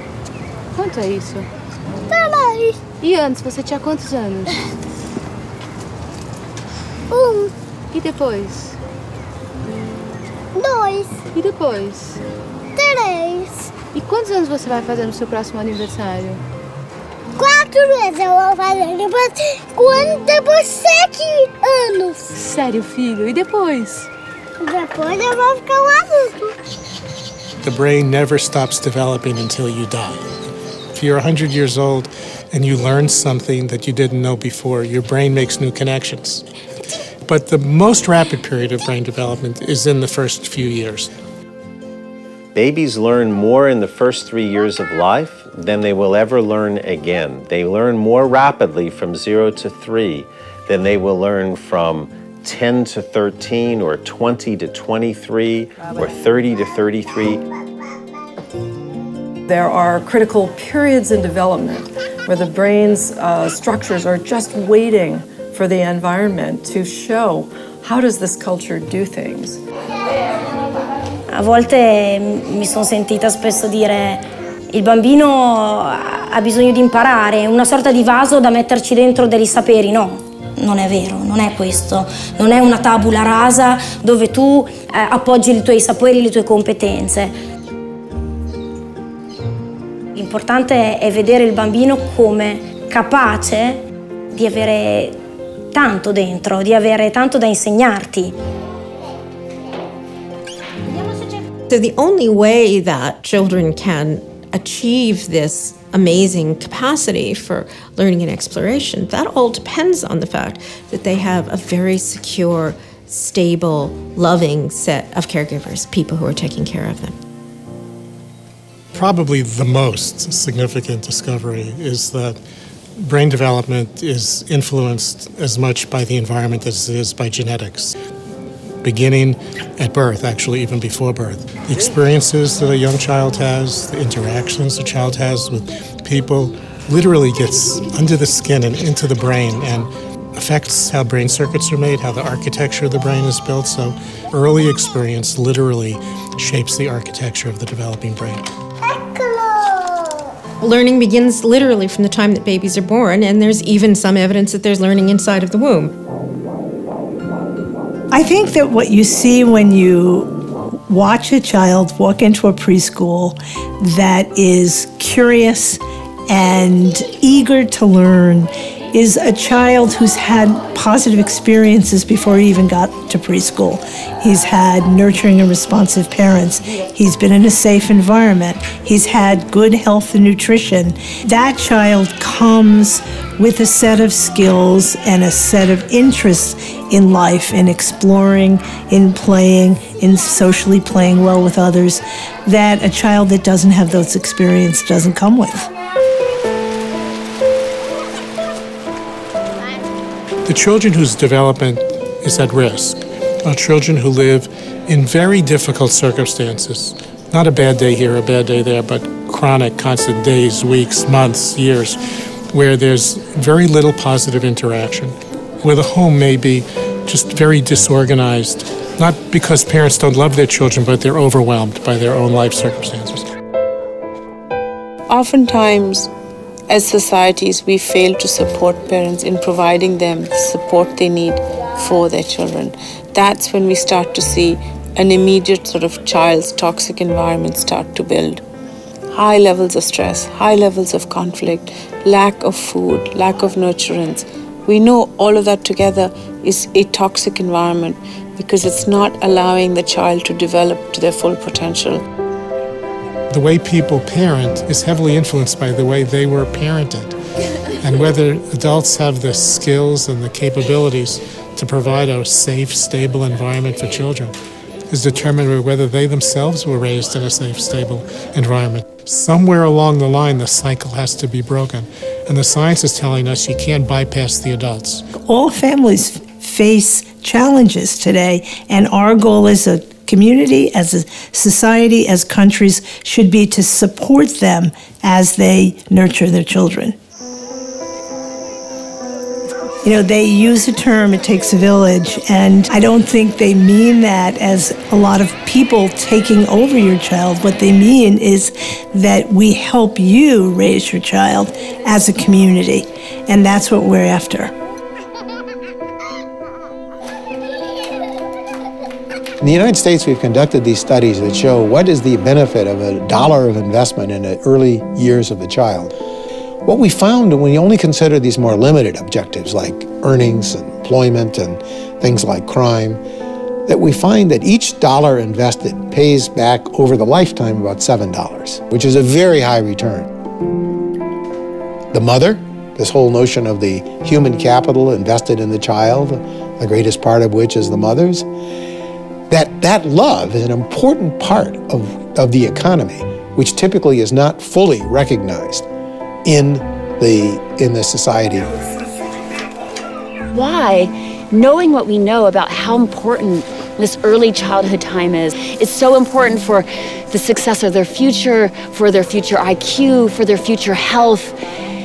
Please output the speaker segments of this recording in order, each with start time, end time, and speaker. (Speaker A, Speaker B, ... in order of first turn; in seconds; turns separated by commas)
Speaker A: 0.8-1.5, Speaker B: 2.1-2.9, Speaker A: 3.1-4.5, Speaker B: 7.1-7.5, Speaker A: 8.0-8.8, Speaker B: 10.6-11.1, Speaker A: 11.4-12.2, Speaker B: 12.8-13.7, Speaker A: 14.0-16.4, Speaker B: 17.4-22.3, Speaker A: 22.5-24.1, Speaker B: 24.6-26.4, Speaker C: 27.6-30.3, Speaker C: 30.9-36.5, Speaker C: 37.3-41.1, Speaker D: 42.5-57.4, Speaker E: 59.5-69.6, Speaker F: 71.3-87.3, Speaker F: 90.2-93.8, Speaker F: 94.3-95.2, Speaker F: 95.7-98.3, Speaker G: 101.7-117.2, Speaker C: 118.9-122.4, Speaker C: 123.0-127.9, Speaker C: 128.8-148.4, Speaker G: 150.6-155.9, Speaker H: 158.1-195.7, Speaker C: 200.5-212.0, Speaker C: 212.5-223.3, Speaker I: 225.1-226.1, Speaker I: 226.7-238.4, Speaker I: 239.1-252.0, Speaker C: 253.3-257.2, Speaker C: 257.8-264.4, Speaker C: 264.9-275.1, Speaker H: 275.1-287.0, Speaker H: 289.8-304.5, Speaker J: 309.4-315.9, Speaker J: 316.6-323.0, Speaker J: 323.7-330.1, Speaker J: 331.9-338.3, Speaker J: 339.3-345.7, Speaker J: 346.3-348.5, Speaker K: 350.3-361.4